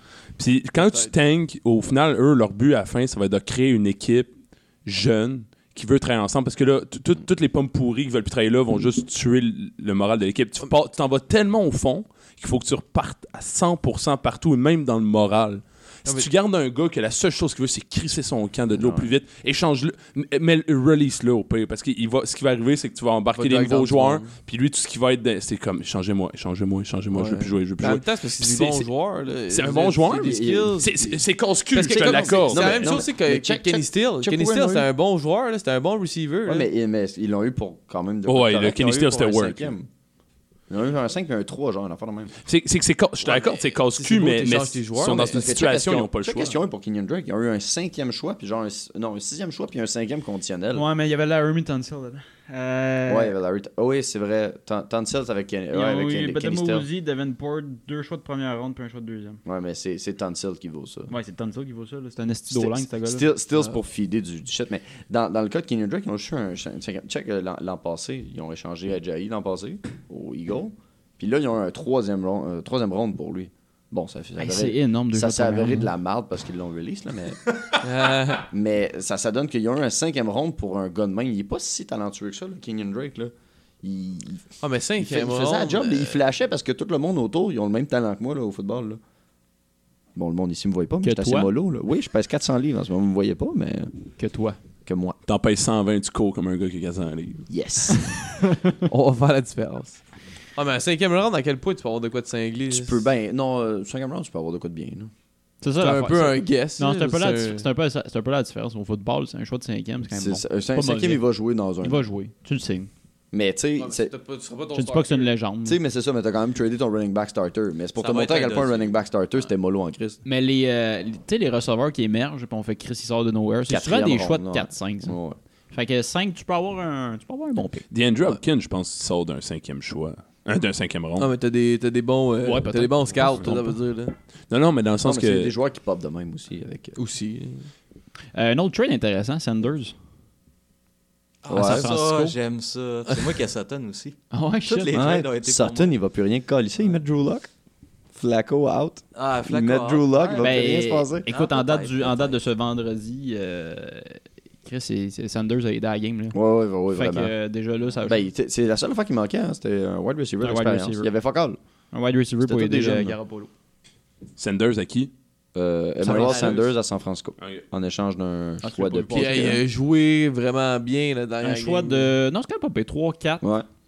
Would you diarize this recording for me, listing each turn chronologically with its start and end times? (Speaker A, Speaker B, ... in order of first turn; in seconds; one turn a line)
Speaker A: 0.4-4.3
Speaker B: 0.8-1.1
Speaker A: 4.8-28.9
Speaker C: 18.7-19.1
Speaker B: 23.3-24.4
Speaker B: 27.1-31.2
Speaker A: 29.5-33.0
Speaker C: 30.2-31.1
Speaker B: 31.7-36.7
Speaker C: 31.7-34.9
Speaker C: 36.5-39.9
Speaker A: 38.3-39.7
Speaker C: 40.7-42.3
Speaker A: 42.5-46.5
Speaker B: 43.3-45.5
Speaker C: 45.0-50.9
Speaker D: 50.7-53.3
Speaker C: 53.1-56.9
Speaker D: 55.7-59.4
Speaker C: 59.5-61.1
Speaker D: 61.1-63.3
Speaker C: 62.5-77.4
Speaker D: 74.4-75.9
Speaker B: 77.8-78.5
Speaker C: 78.5-89.0
Speaker B: 84.6-86.2
Speaker C: 90.2-93.9
Speaker D: 91.0-91.5
Speaker D: 94.2-94.6
Speaker C: 94.9-95.2
Speaker A: 95.3-97.5
Speaker C: 97.5-98.1
Speaker D: 98.4-98.7
Speaker B: 98.9-100.0
Speaker B: 100.5-103.0
Speaker C: 102.7-105.1
Speaker D: 105.6-111.2
Speaker B: 105.8-107.7
Speaker C: 110.1-112.1
Speaker D: 111.8-112.9
Speaker C: 113.3-114.1
Speaker B: 113.8-115.3
Speaker D: 114.7-115.8
Speaker C: 115.7-120.2
Speaker E: 118.0-119.0
Speaker D: 120.2-125.2
Speaker C: 123.7-125.4
Speaker D: 125.7-127.8
Speaker A: 127.9-131.3
Speaker B: 131.2-134.2
Speaker D: 132.4-133.7
Speaker A: 133.3-133.5
Speaker A: 134.5-135.5
Speaker C: 135.0-137.0
Speaker B: 137.0-137.7
Speaker D: 138.3-139.9
Speaker E: 141.4-145.9
Speaker C: 141.5-141.9
Speaker D: 141.5-142.4
Speaker D: 144.3-144.9
Speaker C: 144.9-147.5
Speaker C: 148.1-151.3
Speaker E: 149.1-152.4
Speaker D: 150.4-156.4
Speaker C: 156.3-157.3
Speaker D: 156.9-158.3
Speaker C: 158.1-161.6
Speaker D: 160.4-161.1
Speaker D: 161.9-163.5
Speaker C: 162.4-163.2
Speaker A: 164.4-165.1
Speaker C: 165.6-169.6
Speaker D: 166.0-166.6
Speaker E: 166.1-166.7
Speaker D: 168.6-169.6
Speaker B: 169.1-172.2
Speaker D: 171.4-173.5